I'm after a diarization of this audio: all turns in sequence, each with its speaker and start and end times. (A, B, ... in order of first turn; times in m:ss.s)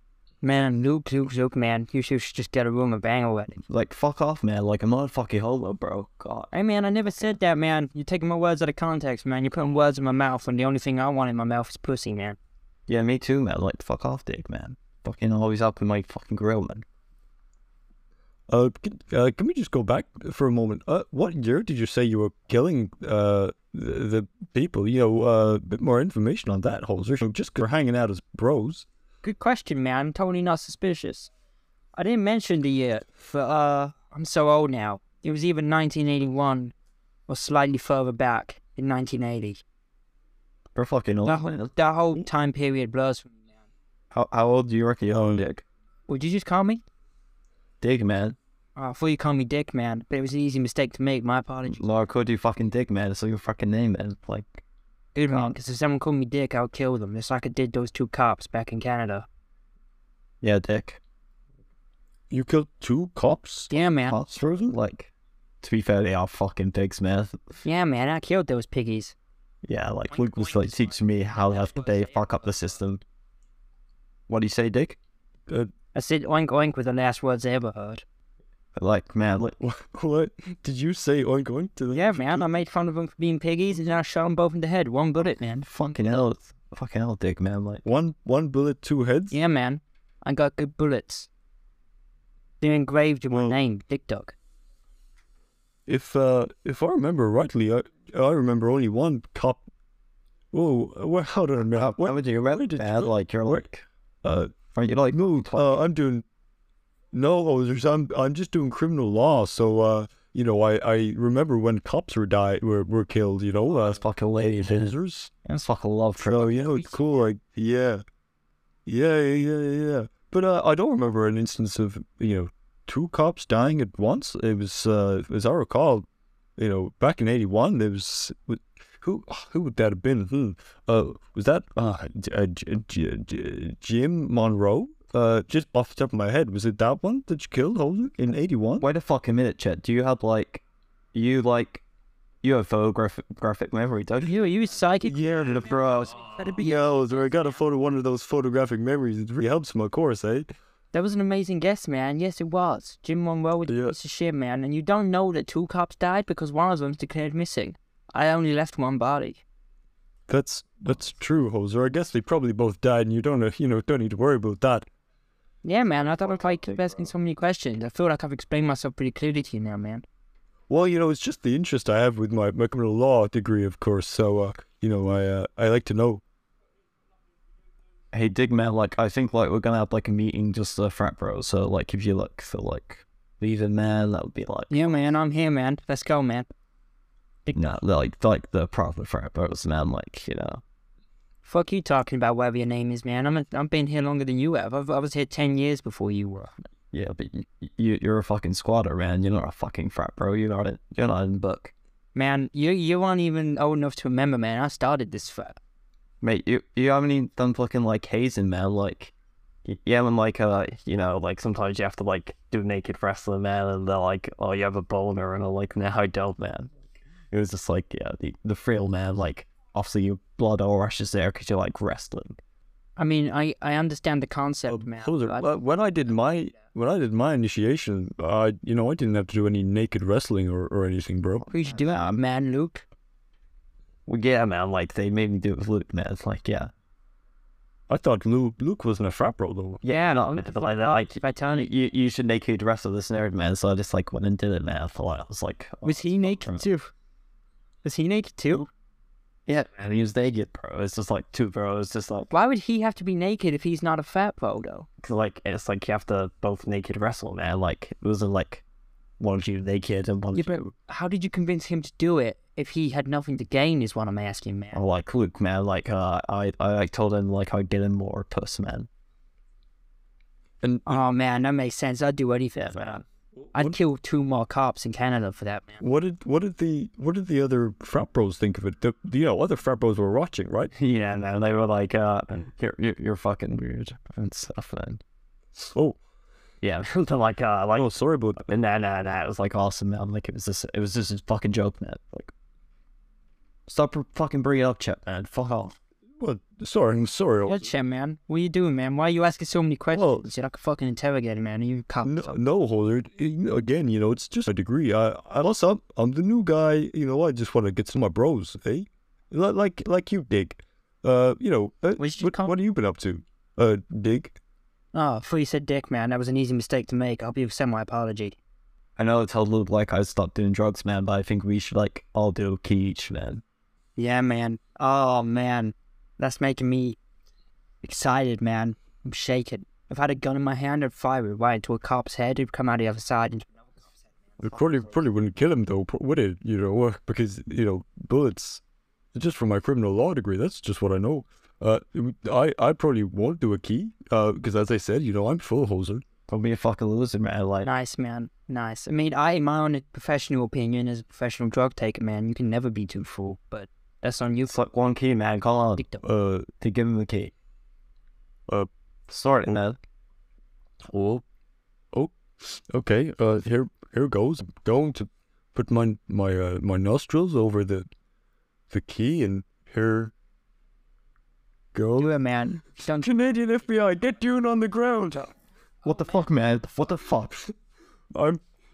0:00.4-0:03.6 A
0:03.7-0:06.5 B
0:06.5-0:12.4 A
0:12.9-0:16.8 B
0:18.5-0:28.9 C
0:29.2-0:31.3 A
0:32.0-0:36.7 A
0:37.3-0:39.6 A
0:40.8-0:41.7 B
0:41.3-0:43.4 A
0:44.1-0:45.6 B
0:46.1-0:46.8 A
0:47.8-0:48.4 B
0:48.8-0:51.8 A
0:51.7-0:54.6 B
0:55.2-0:59.3 A
1:00.4-1:01.0 B
1:02.3-1:03.7 C
1:03.7-1:04.2 A
1:04.1-1:05.1 B
1:04.5-1:04.7 C
1:05.6-1:07.4 B
1:07.6-1:09.2 A
1:09.6-1:13.0 B
1:10.4-1:11.0 A
1:11.7-1:12.1 A
1:14.3-1:15.0 B
1:15.9-1:18.0 A
1:18.8-1:19.6 B
1:19.6-1:22.5 C
1:21.9-1:25.7 A
1:25.6-1:27.8 B
1:27.8-1:29.4 C
1:29.3-1:31.3 A
1:32.6-1:34.4 A
1:35.9-1:39.6 C
1:40.5-1:43.1 C
1:41.7-1:43.9 B
1:44.2-1:46.2 C
1:44.7-1:45.8 B
1:47.1-1:54.0 C
1:53.7-1:56.9 B
1:54.8-1:55.4 C
1:56.3-1:58.0 C
1:58.9-2:06.1 C
2:06.6-2:18.8 C
2:18.8-2:20.6 B
2:21.1-2:21.8 B
2:22.4-2:24.3 B
2:24.2-2:25.4 A
2:25.1-2:26.2 B
2:26.2-2:26.8 A
2:26.6-2:30.5 C
2:30.9-2:39.4 A
2:33.7-2:34.0 C
2:40.3-2:44.9 C
2:45.6-2:50.0 A
2:50.7-2:56.2 C
2:58.1-3:04.7 B
3:04.7-3:06.5 A
3:07.5-3:10.6 B
3:11.4-3:16.5 A
3:16.9-3:21.7 B
3:22.2-3:25.6 A
3:26.2-3:29.1 B
3:29.6-3:36.7 B
3:37.3-3:42.4 B
3:43.0-3:45.5 A
3:44.7-3:51.5 C
3:51.5-3:52.8 A
3:51.5-3:52.0 B
3:54.1-3:56.7 B
3:57.9-3:59.8 C
3:59.8-4:06.6 B
4:01.2-4:01.7 A
4:05.8-4:06.9 A
4:07.8-4:08.7 A
4:09.5-4:12.3 B
4:12.3-4:14.9 A
4:15.0-4:18.6 B
4:19.2-4:20.5 B
4:20.3-4:24.8 A
4:24.7-4:28.9 B
4:30.6-4:31.0 C
4:30.9-4:33.0 A
4:32.6-4:33.0 B
4:33.5-4:35.8 A
4:35.8-4:40.7 C
4:40.8-4:45.0 B
4:46.6-4:52.3 B
4:47.8-4:48.4 C
4:53.7-4:55.8 B
4:56.2-4:57.7 C
4:57.5-5:02.4 A
4:59.9-5:00.3 C
5:02.0-5:14.4 C
5:12.0-5:12.6 A
5:14.9-5:18.4 A
5:19.0-5:23.4 B
5:24.0-5:27.0 A
5:27.8-5:33.5 A
5:34.4-5:38.6 C
5:39.1-5:46.0 C
5:46.3-5:47.7 B
5:47.6-5:54.6 A
5:54.5-5:55.8 B
5:55.8-5:56.0 A
5:56.0-5:56.5 C
5:56.6-5:57.3 B
5:59.1-5:59.8 B
6:00.9-6:01.2 C
6:01.9-6:07.9 C
6:08.7-6:10.1 C
6:11.7-6:12.1 C
6:12.0-6:13.1 A
6:13.0-6:15.3 C
6:15.8-6:17.5 B
6:18.1-6:18.4 C